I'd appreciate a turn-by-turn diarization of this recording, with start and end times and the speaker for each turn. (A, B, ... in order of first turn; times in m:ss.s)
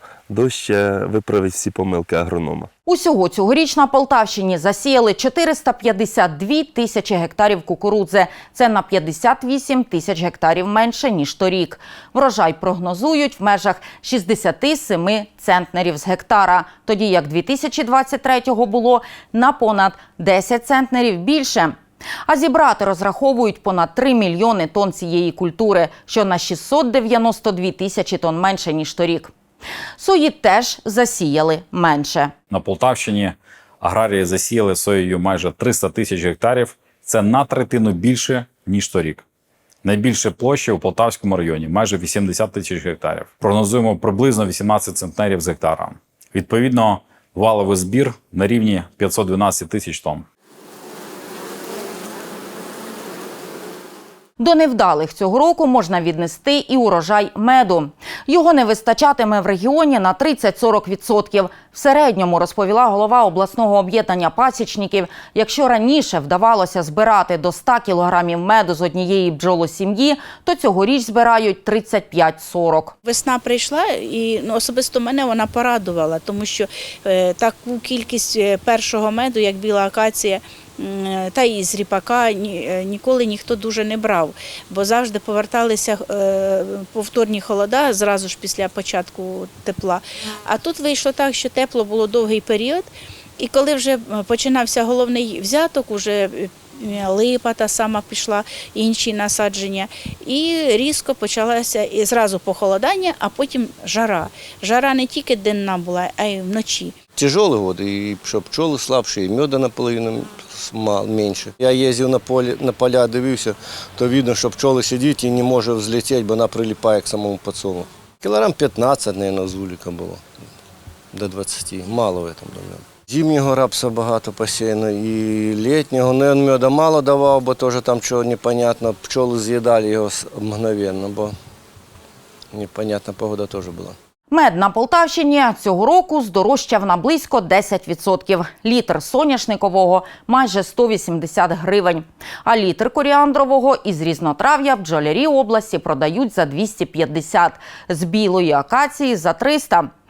0:00.3-0:02.7 A
0:02.8-0:21.7 B
0:22.2-0:29.3 B
0:30.0-0:32.3 B
0:32.5-0:39.2 C
0:39.8-0:50.2 C
0:54.4-1:12.9 B
1:13.0-1:32.9 D
1:33.4-1:46.9 D
1:47.1-2:00.2 E
2:01.1-2:11.4 E
2:12.5-2:14.0 E
2:14.3-2:29.9 B